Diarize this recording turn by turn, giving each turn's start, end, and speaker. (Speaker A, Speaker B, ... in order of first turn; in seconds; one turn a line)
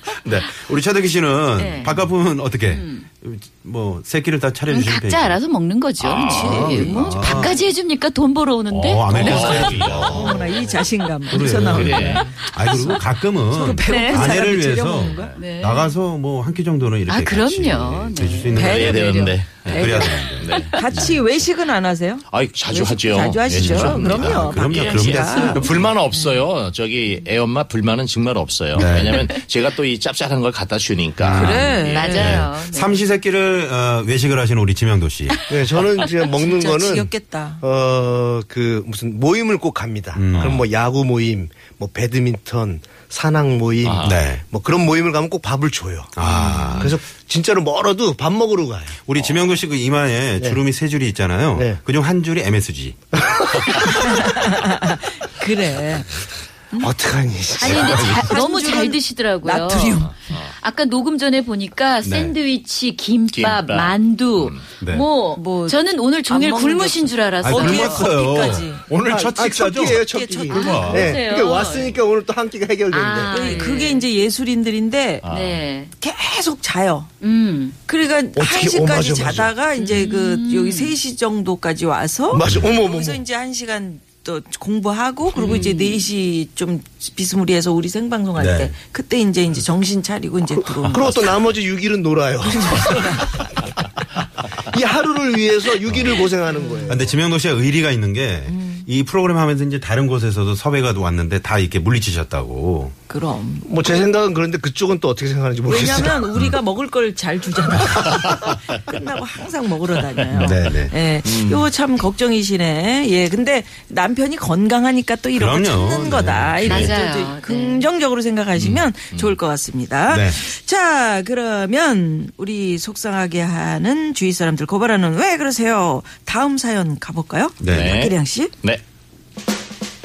Speaker A: 0.1-5.4
Speaker B: 1.6-2.0
Speaker B: 2.7-3.0
Speaker B: 4.7-9.9
Speaker C: 6.0-6.5
Speaker A: 6.2-7.6
Speaker D: 6.3-7.4
Speaker A: 8.7-10.6
Speaker C: 9.1-10.9
Speaker D: 9.9-15.4
Speaker A: 11.3-21.2
Speaker C: 11.5-12.2
Speaker B: 13.9-14.4
Speaker B: 15.4-15.9
Speaker B: 17.1-20.3
Speaker D: 18.5-19.1
Speaker C: 18.6-21.1
Speaker D: 20.7-25.8
Speaker C: 22.3-32.4
Speaker A: 23.5-25.9
Speaker A: 28.7-29.3
Speaker A: 31.2-35.4
Speaker D: 31.3-32.4
Speaker B: 31.9-33.0
Speaker E: 35.5-46.1
Speaker D: 36.2-37.6
Speaker A: 40.1-40.7
Speaker C: 43.8-44.2
Speaker A: 44.0-44.4
Speaker A: 46.1-46.9
Speaker B: 46.3-46.8
Speaker E: 46.7-49.0
Speaker A: 49.1-53.1
Speaker C: 49.2-49.5
Speaker D: 54.0-56.1
Speaker E: 56.8-58.0
Speaker B: 57.6-60.0
Speaker A: 57.6-58.4
Speaker D: 57.7-60.1
Speaker C: 60.1-60.5
Speaker B: 60.5-68.0
Speaker A: 62.0-62.4
Speaker C: 63.3-64.6
Speaker A: 64.8-65.1
Speaker D: 65.3-68.8
Speaker A: 67.4-71.2
Speaker E: 69.0-73.5
Speaker D: 70.1-71.2
Speaker B: 70.5-72.0
Speaker B: 72.9-74.1
Speaker D: 73.3-75.3
Speaker C: 75.2-75.6
Speaker B: 75.3-75.9
Speaker D: 76.0-77.1
Speaker B: 77.2-77.8
Speaker D: 77.9-91.5
Speaker E: 78.4-79.5
Speaker B: 79.8-81.0
Speaker E: 82.3-83.2
Speaker B: 85.4-86.0
Speaker A: 88.4-88.8
Speaker E: 90.8-93.2
Speaker D: 92.4-93.7
Speaker E: 94.7-97.0
Speaker D: 96.5-97.1
Speaker A: 96.9-102.9
Speaker D: 98.5-98.8
Speaker D: 103.1-104.0
Speaker E: 103.7-106.3
Speaker D: 105.7-128.5
Speaker A: 110.3-111.0
Speaker C: 111.2-111.7
Speaker A: 115.4-116.9
Speaker B: 116.7-117.8
Speaker C: 118.6-119.3
Speaker A: 120.1-120.4
Speaker A: 127.6-128.0
Speaker C: 127.7-128.8